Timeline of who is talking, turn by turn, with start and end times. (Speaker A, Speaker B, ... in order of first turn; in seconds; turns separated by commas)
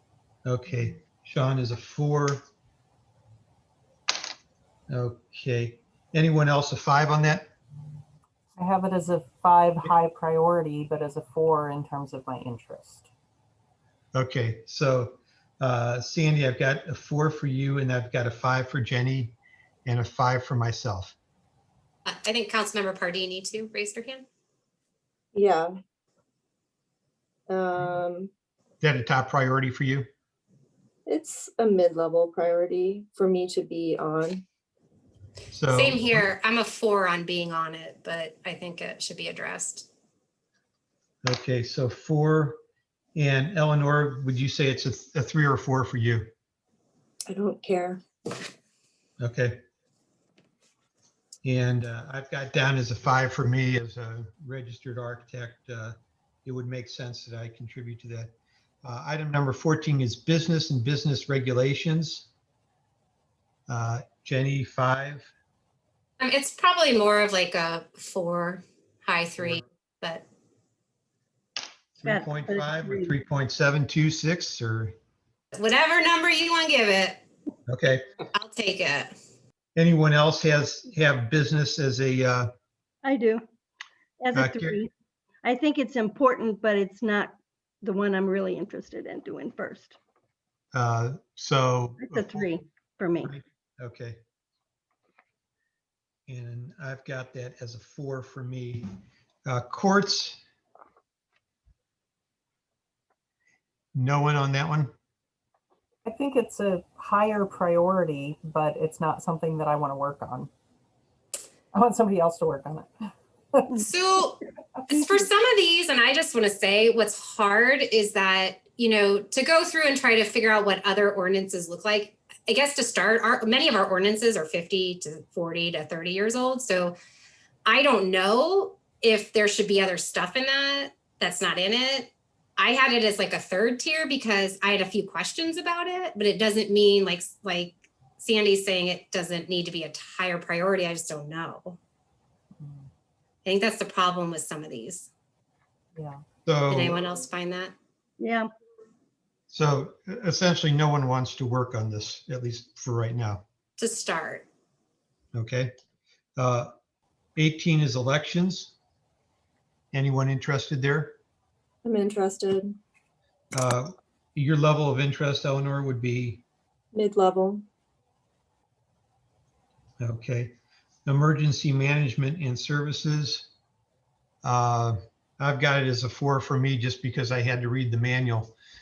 Speaker A: 0.5-2.4, Speaker A: 4.9-7.5, Speaker B: 8.6-13.1, Speaker A: 14.1-21.1, Speaker C: 22.1-24.2, Speaker D: 25.3-25.7, Speaker D: 27.5-28.3, Speaker A: 28.8-30.1, Speaker D: 31.1-34.4, Speaker A: 35.5-36.2, Speaker C: 35.7-39.9, Speaker A: 41.2-42.6, Speaker A: 43.1-46.3, Speaker D: 47.3-48.0, Speaker A: 49.2-49.6, Speaker A: 51.4-58.3, Speaker A: 58.8-62.3, Speaker A: 63.7-65.3, Speaker C: 66.2-70.2, Speaker A: 72.0-74.9, Speaker E: 72.0-73.1, Speaker C: 75.5-77.2, Speaker A: 77.7-78.0, Speaker C: 78.3-79.1, Speaker A: 79.8-82.5, Speaker E: 83.0-83.4, Speaker E: 84.2-84.9, Speaker A: 84.3-84.8, Speaker E: 85.4-90.0, Speaker A: 90.7-92.5, Speaker E: 92.0-93.4, Speaker A: 93.3-94.2, Speaker A: 96.3-98.9, Speaker A: 99.5-100.4, Speaker A: 103.9-104.9, Speaker B: 106.0-110.5, Speaker B: 111.7-112.9, Speaker C: 113.8-127.0, Speaker C: 127.7-141.8, Speaker B: 142.6-142.9, Speaker C: 143.4-145.1, Speaker B: 145.9-146.2, Speaker A: 146.4-147.0, Speaker C: 146.7-147.7, Speaker E: 148.2-148.5, Speaker A: 149.5-153.4, Speaker C: 153.8-154.4, Speaker A: 155.3-155.7, Speaker A: 156.4-156.7, Speaker A: 157.3-158.8, Speaker A: 159.9-161.2, Speaker D: 161.8-162.8, Speaker A: 163.5-166.4, Speaker D: 166.9-167.6, Speaker A: 170.0-170.5, Speaker A: 171.1-173.5, Speaker A: 174.4-178.5